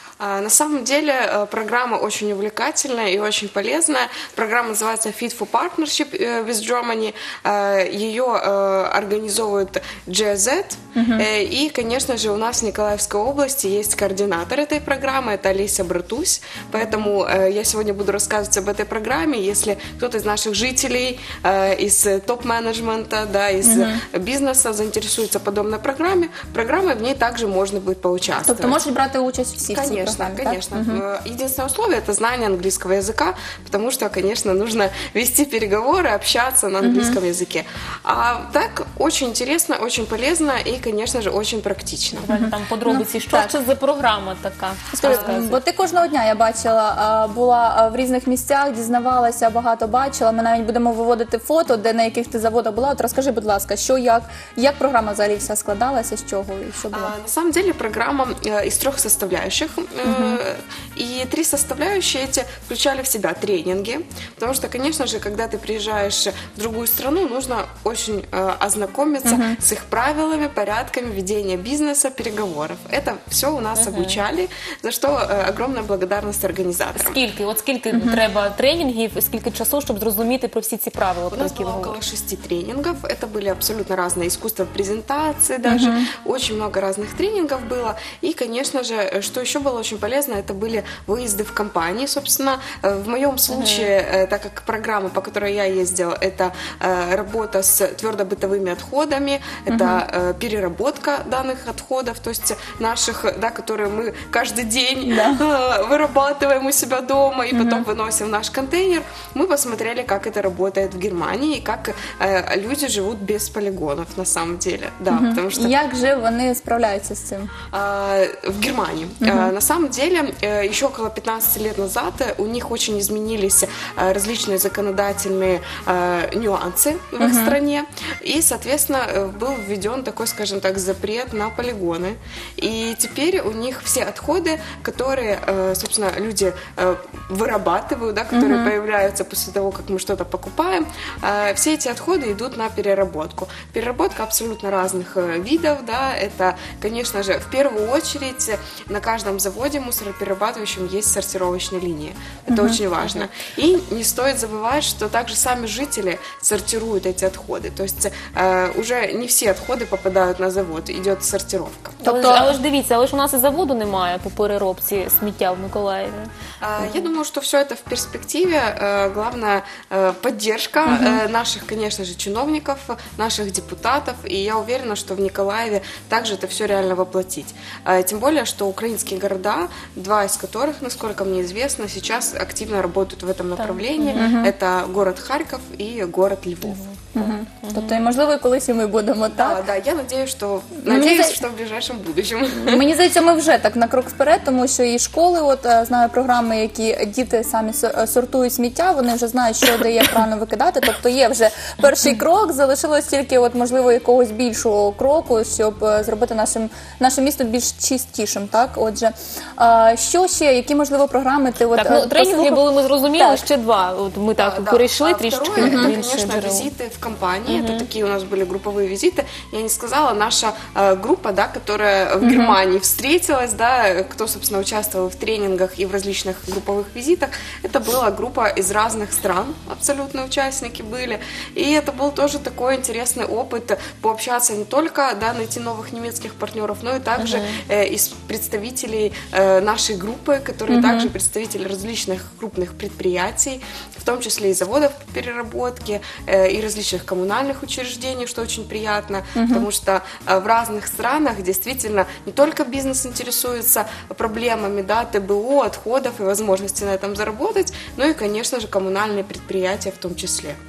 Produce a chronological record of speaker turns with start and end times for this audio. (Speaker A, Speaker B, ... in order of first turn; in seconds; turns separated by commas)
Speaker A: 0.2-28.8, Speaker B: 10.9-11.2, Speaker B: 23.6-24.0, Speaker B: 28.4-31.0, Speaker A: 29.7-42.3, Speaker B: 36.8-37.2, Speaker C: 42.2-45.6, Speaker B: 42.3-43.5, Speaker B: 44.9-57.1, Speaker A: 56.9-77.2, Speaker B: 60.0-60.4, Speaker B: 69.2-69.6, Speaker C: 73.7-74.2, Speaker C: 77.0-82.0, Speaker B: 77.9-78.2, Speaker A: 81.3-115.7, Speaker B: 85.6-86.1, Speaker C: 93.5-93.9, Speaker B: 99.7-100.0, Speaker B: 105.0-105.4, Speaker B: 107.5-107.8, Speaker B: 115.1-117.5, Speaker A: 117.7-162.0, Speaker B: 119.2-119.5, Speaker B: 127.2-127.5, Speaker B: 138.3-138.7, Speaker B: 152.5-152.8, Speaker B: 162.0-162.6, Speaker C: 162.0-166.3, Speaker A: 166.6-186.8, Speaker B: 170.8-171.2, Speaker C: 183.6-184.3, Speaker B: 184.1-184.5, Speaker C: 186.7-188.0, Speaker B: 187.1-189.6, Speaker A: 189.3-192.8, Speaker B: 190.8-191.4, Speaker B: 192.6-212.6, Speaker C: 211.7-216.7, Speaker B: 213.2-213.4, Speaker A: 214.4-260.6, Speaker B: 215.6-215.9, Speaker C: 217.5-217.9, Speaker B: 222.2-222.6, Speaker C: 237.2-237.6, Speaker B: 240.7-241.1, Speaker B: 249.3-249.7